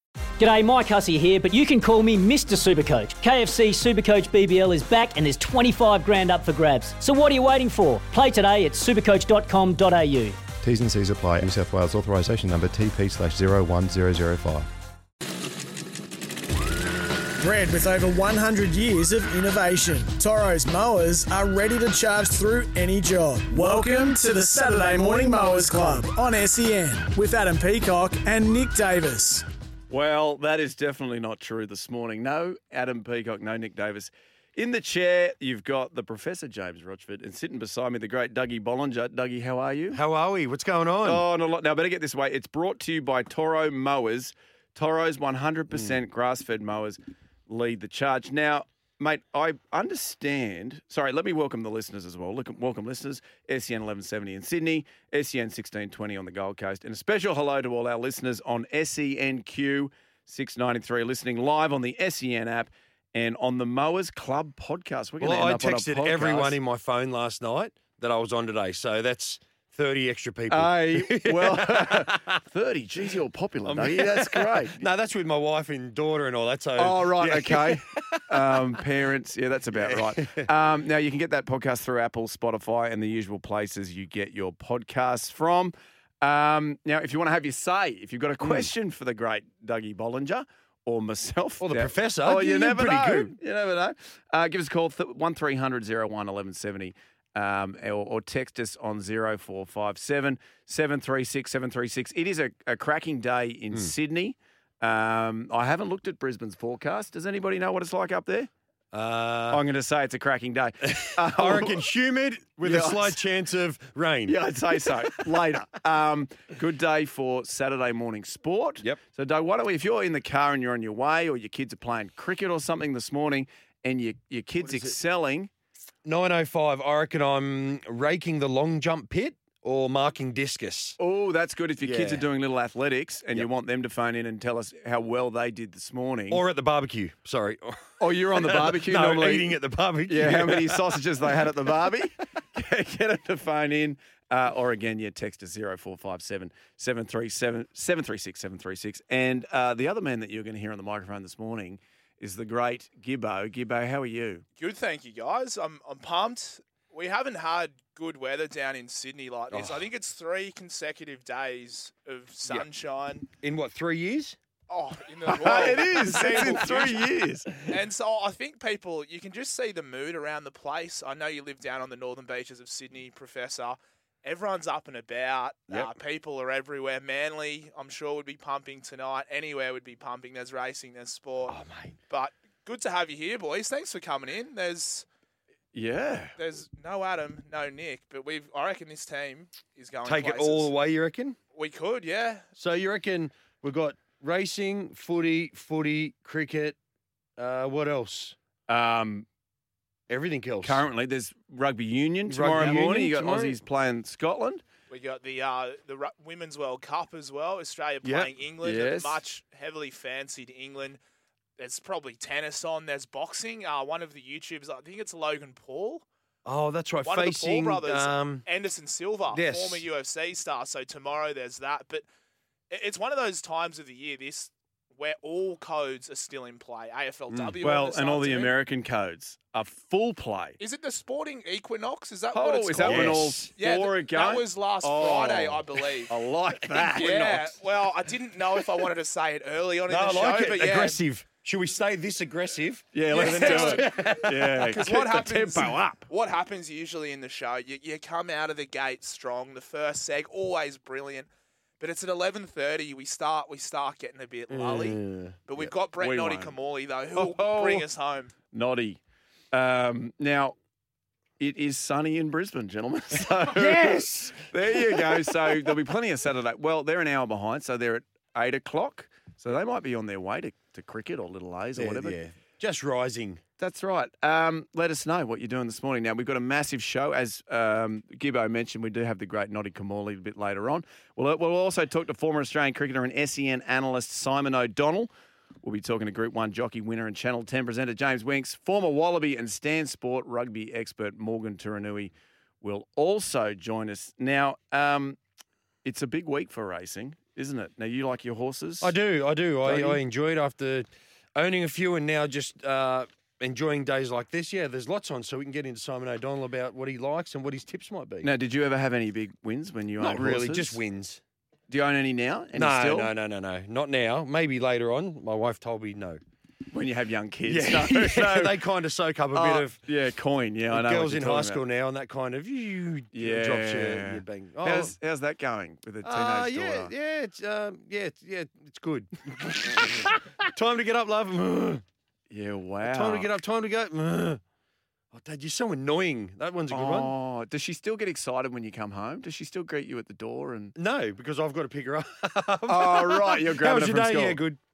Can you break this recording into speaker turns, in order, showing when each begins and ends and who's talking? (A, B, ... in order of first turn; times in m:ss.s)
0:00.4-0:10.4 A
0:10.6-0:14.7 B
0:17.4-0:29.4 C
0:29.9-0:40.0 D
0:39.9-0:41.2 E
0:41.0-1:06.6 D
1:05.2-1:12.4 E
1:10.5-1:14.8 D
1:13.6-1:18.8 E
1:16.8-1:48.5 D
1:19.7-1:20.5 E
1:28.4-1:28.7 E
1:31.6-1:33.4 E
1:48.9-1:49.6 E
1:49.5-1:51.8 D
1:50.9-1:55.4 E
1:52.6-1:53.2 D
1:54.3-2:05.5 D
2:04.6-2:05.0 E
2:06.0-2:11.0 E
2:11.0-2:16.4 D
2:11.8-2:12.2 E
2:16.3-2:21.3 E
2:18.0-2:34.4 D
2:34.6-2:43.3 F
2:39.5-2:39.8 E
2:43.4-2:44.4 E
2:44.7-2:47.1 F
2:45.3-2:47.5 D
2:46.1-2:46.6 E
2:47.6-3:01.6 F
3:01.5-3:02.0 E
3:02.1-3:05.0 F
3:05.7-3:06.3 D
3:06.4-3:10.7 F
3:10.0-3:11.4 E
3:11.5-3:12.4 F
3:12.6-3:16.8 E
3:17.4-3:18.4 E
3:18.7-3:19.2 D
3:20.1-3:20.8 E
3:20.6-3:24.6 D
3:22.2-3:23.6 E
3:24.9-3:31.0 F
3:28.0-3:28.3 E
3:28.6-3:29.2 D
3:31.6-3:36.0 F
3:36.4-3:38.4 E
3:37.0-3:42.0 F
3:39.3-3:39.8 E
3:42.7-3:48.5 F
3:47.3-3:47.6 E
3:47.6-3:50.6 D
3:50.6-3:56.1 F
3:52.3-3:57.5 D
3:52.8-3:53.5 E
3:56.9-4:01.0 F
3:59.9-4:04.9 E
4:02.9-4:06.0 D
4:03.1-4:11.3 F
4:11.8-4:18.3 F
4:14.5-4:15.7 E
4:16.0-4:16.5 D
4:17.2-4:17.8 D
4:18.5-4:19.0 D
4:19.5-4:20.6 D
4:21.4-4:32.2 D
4:23.5-4:25.8 E
4:31.8-4:33.4 E
4:33.6-4:45.1 D
4:45.6-4:55.2 D
4:55.8-4:58.9 D
4:58.8-5:08.3 E
4:59.6-5:00.0 D
5:08.2-5:10.8 D
5:10.0-5:11.2 E
5:11.7-5:13.1 D
5:12.5-5:16.2 E
5:16.7-5:18.6 D
5:17.4-5:19.8 E
5:19.3-5:21.6 D
5:20.7-5:25.0 E
5:23.1-5:26.9 D
5:26.0-5:31.8 E
5:32.3-5:33.3 D
5:32.8-5:34.4 E
5:35.1-5:37.1 E
5:36.7-5:40.7 D
5:40.8-5:44.6 E
5:42.7-5:44.4 D